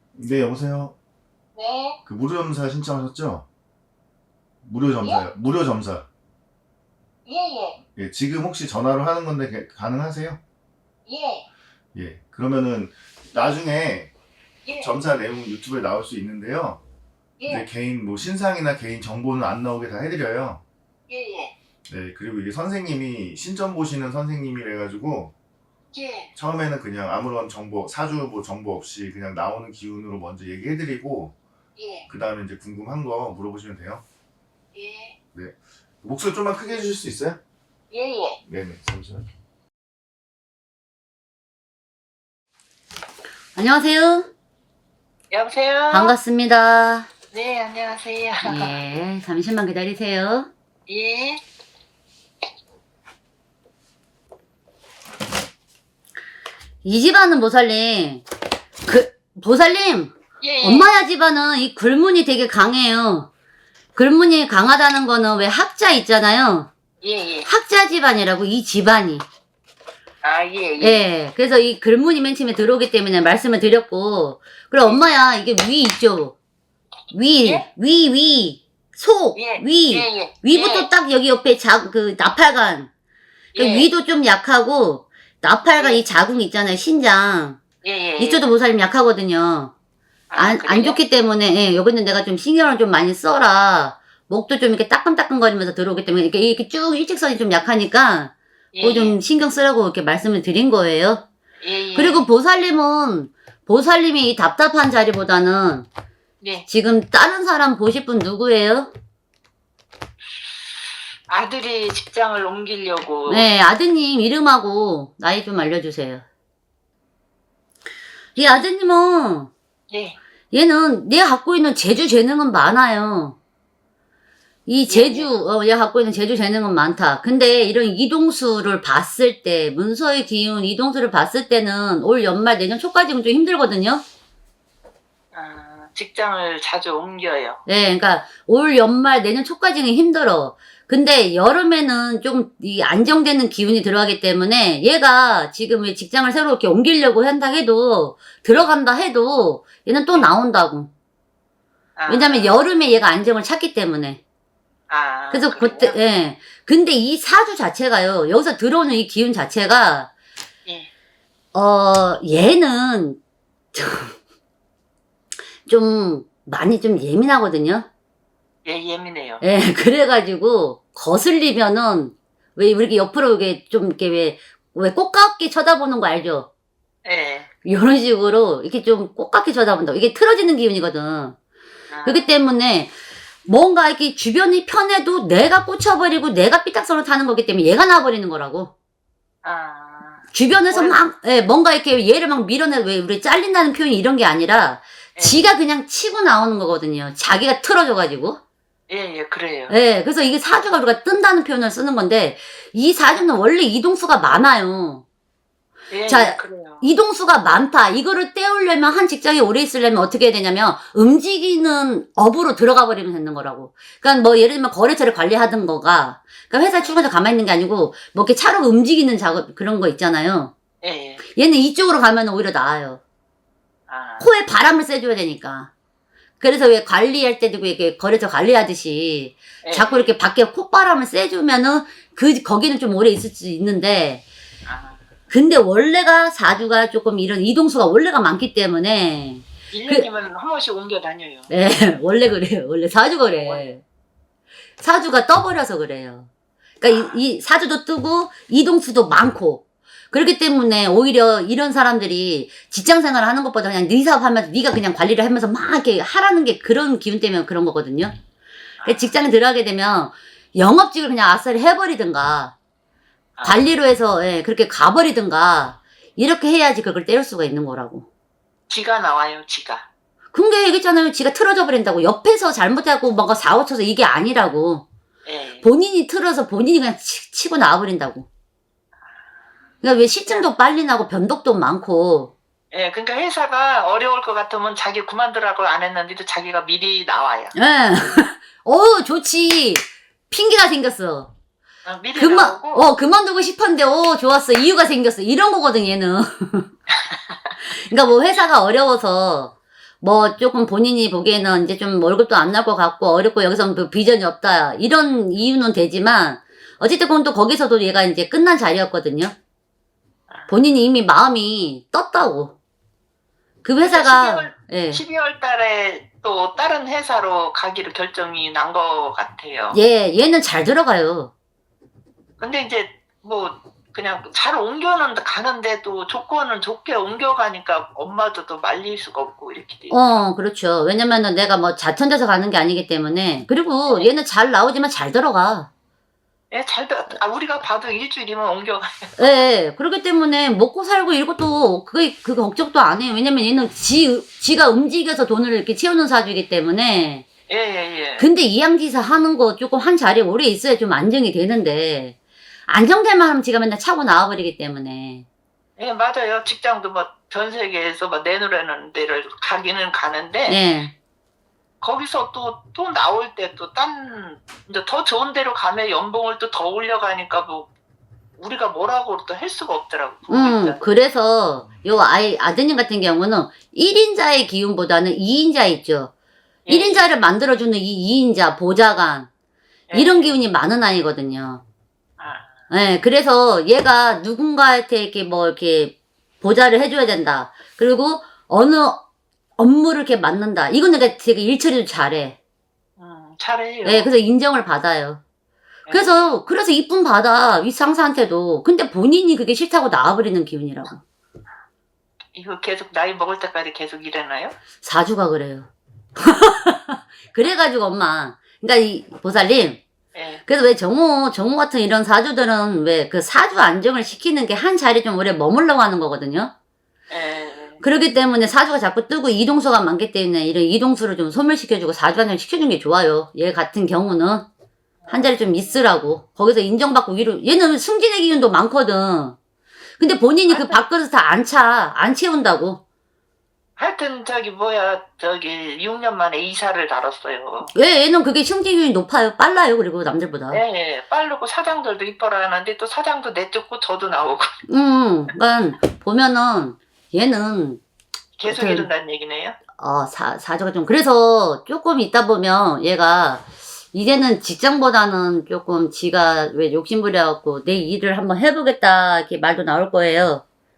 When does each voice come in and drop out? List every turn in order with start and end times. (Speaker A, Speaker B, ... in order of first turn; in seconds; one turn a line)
Speaker A: 0.1-0.9
Speaker B: 1.5-2.0
Speaker A: 2.0-3.4
Speaker A: 4.6-6.0
Speaker B: 7.2-7.8
Speaker A: 8.0-10.4
Speaker B: 11.1-11.4
Speaker A: 11.9-14.1
Speaker B: 14.6-14.9
Speaker A: 14.8-16.8
Speaker B: 17.4-17.7
Speaker A: 17.5-20.6
Speaker B: 21.1-21.5
Speaker A: 21.9-25.3
Speaker B: 25.9-26.3
Speaker A: 26.3-31.3
Speaker B: 31.8-32.1
Speaker A: 32.1-34.0
Speaker B: 34.7-35.1
Speaker A: 35.3-37.4
Speaker B: 37.9-38.4
Speaker A: 38.5-39.2
Speaker C: 43.5-44.3
Speaker B: 45.3-46.1
Speaker C: 45.9-47.1
Speaker B: 47.3-48.7
Speaker C: 48.4-50.5
Speaker B: 50.9-51.4
Speaker C: 56.8-58.2
Speaker C: 58.9-63.3
Speaker B: 60.4-60.9
Speaker C: 63.9-66.7
Speaker B: 67.0-67.5
Speaker C: 67.4-69.2
Speaker B: 70.2-71.0
Speaker C: 70.8-76.3
Speaker C: 77.1-82.9
Speaker B: 79.3-80.9
Speaker B: 83.5-83.9
Speaker C: 83.5-87.6
Speaker B: 85.8-86.0
Speaker B: 87.8-88.4
Speaker C: 88.2-89.7
Speaker B: 90.3-91.0
Speaker C: 90.3-101.2
Speaker B: 98.7-99.2
Speaker B: 101.6-102.2
Speaker C: 101.9-105.9
Speaker B: 106.4-106.7
Speaker C: 106.7-108.9
Speaker B: 111.3-113.5
Speaker C: 113.3-116.2
Speaker C: 118.3-119.5
Speaker B: 119.9-120.2
Speaker C: 120.5-123.4
Speaker C: 124.7-134.0
Speaker B: 124.9-125.3
Speaker B: 135.3-137.6
Speaker C: 137.7-150.9
Speaker B: 151.9-152.7
Speaker C: 152.1-154.2
Speaker B: 154.9-156.0
Speaker C: 155.3-160.1
Speaker B: 160.7-160.9
Speaker C: 161.5-163.2
Speaker C: 163.7-164.1
Speaker C: 165.7-167.9
Speaker B: 168.6-169.4
Speaker C: 169.4-176.5
Speaker B: 177.0-177.5
Speaker C: 177.6-181.3
Speaker B: 181.9-182.3
Speaker C: 182.1-182.9
Speaker C: 183.4-188.7
Speaker B: 189.4-191.0
Speaker C: 190.3-198.4
Speaker B: 195.2-195.5
Speaker B: 198.9-199.7
Speaker C: 199.7-205.0
Speaker B: 205.9-206.9
Speaker C: 206.1-220.5
Speaker B: 216.8-217.0
Speaker B: 220.8-221.2
Speaker C: 221.3-223.0
Speaker B: 223.9-224.3
Speaker C: 224.2-225.7
Speaker C: 226.4-234.2
Speaker B: 229.6-230.1
Speaker B: 234.7-235.1
Speaker C: 235.3-240.1
Speaker B: 239.7-241.5
Speaker C: 241.5-243.8
Speaker C: 244.8-246.3
Speaker C: 246.8-258.1
Speaker B: 246.9-247.2
Speaker B: 258.8-259.1
Speaker C: 258.8-262.5
Speaker B: 263.4-263.6
Speaker C: 263.4-268.1
Speaker B: 268.7-269.9
Speaker C: 270.3-274.9
Speaker B: 275.2-275.6
Speaker C: 275.6-278.3
Speaker C: 279.8-282.3
Speaker B: 282.7-287.6
Speaker C: 287.5-291.3
Speaker B: 291.8-292.9
Speaker C: 292.1-296.7
Speaker C: 297.8-309.3
Speaker B: 310.3-310.6
Speaker C: 310.5-312.6
Speaker C: 313.6-315.0
Speaker B: 313.9-319.8
Speaker C: 319.7-321.3
Speaker B: 322.4-330.2
Speaker C: 329.9-335.7
Speaker B: 336.5-339.4
Speaker C: 339.2-347.3
Speaker B: 347.5-348.3
Speaker C: 348.2-352.1
Speaker C: 352.7-355.2
Speaker B: 355.8-360.6
Speaker C: 360.5-360.9
Speaker B: 361.8-367.7
Speaker B: 368.4-370.8
Speaker C: 370.3-376.1
Speaker B: 376.6-377.1
Speaker C: 376.7-379.3
Speaker B: 379.9-380.4
Speaker C: 379.9-381.6
Speaker B: 382.2-382.6
Speaker C: 382.7-389.0
Speaker C: 389.6-392.4
Speaker B: 393.0-394.1
Speaker C: 393.8-395.2
Speaker B: 395.9-396.3
Speaker C: 395.9-401.0
Speaker B: 402.3-404.5
Speaker C: 404.8-409.8
Speaker B: 410.1-410.4
Speaker C: 410.4-416.5
Speaker B: 417.1-417.8
Speaker C: 417.8-424.5
Speaker B: 425.0-425.5
Speaker C: 425.1-429.4
Speaker C: 430.0-432.8
Speaker B: 430.5-430.8
Speaker B: 433.8-437.7
Speaker C: 437.7-440.6
Speaker B: 440.5-444.5
Speaker C: 444.7-447.8
Speaker B: 448.4-449.6
Speaker C: 448.5-448.9
Speaker C: 449.8-460.4